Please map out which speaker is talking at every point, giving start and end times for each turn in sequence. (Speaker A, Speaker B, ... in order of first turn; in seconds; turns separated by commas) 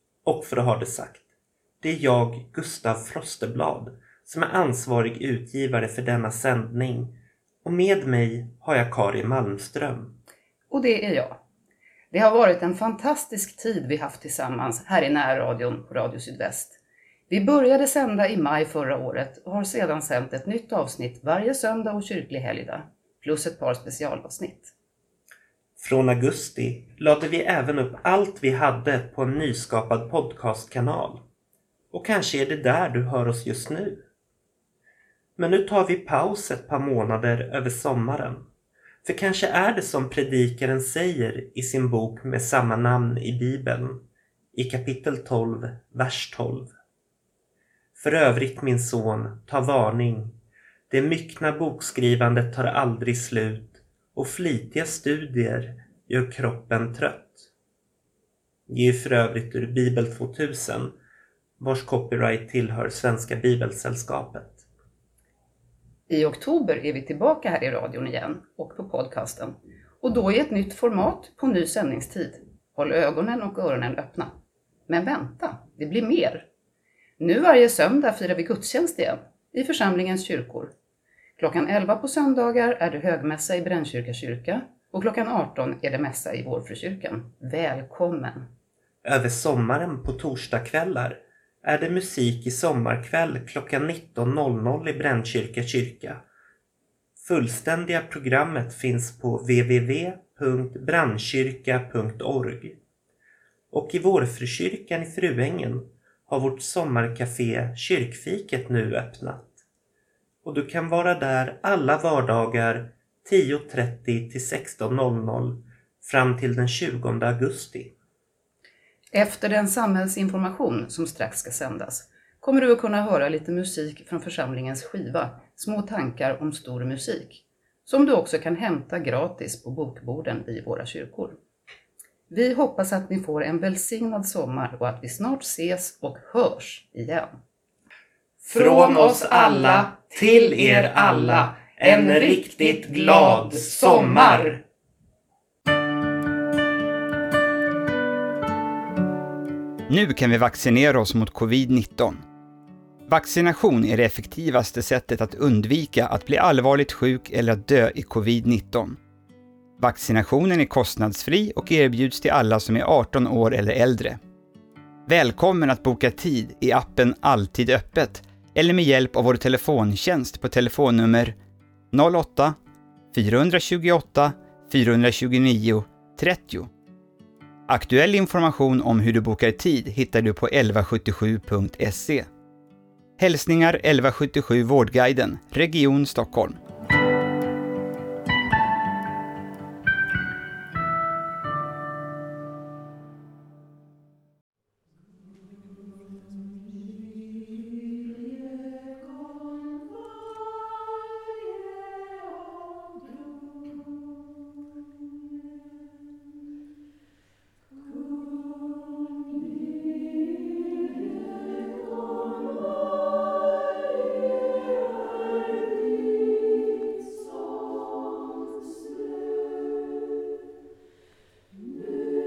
Speaker A: 0.2-1.2, Speaker A: 1.8-10.2, Speaker B: 10.7-11.4, Speaker B: 12.1-16.8, Speaker B: 17.3-24.7, Speaker A: 25.8-31.2, Speaker A: 31.9-34.0, Speaker A: 35.4-38.5, Speaker A: 39.0-46.7, Speaker A: 48.0-50.4, Speaker A: 50.9-57.5, Speaker A: 58.7-61.0, Speaker A: 61.6-64.6, Speaker B: 66.1-74.3, Speaker B: 74.9-76.5, Speaker B: 77.2-80.7, Speaker B: 81.4-88.5, Speaker A: 89.0-96.2, Speaker A: 97.2-102.8, Speaker A: 103.7-109.6, Speaker A: 110.4-117.9, Speaker B: 119.1-131.4, Speaker B: 132.3-137.3, Speaker A: 138.4-144.6, Speaker B: 138.5-144.6, Speaker C: 149.9-152.2, Speaker C: 153.1-159.0, Speaker C: 159.8-164.2, Speaker C: 165.1-171.3, Speaker C: 171.9-172.6, Speaker C: 173.1-176.7, Speaker C: 177.7-182.3, Speaker C: 183.2-186.6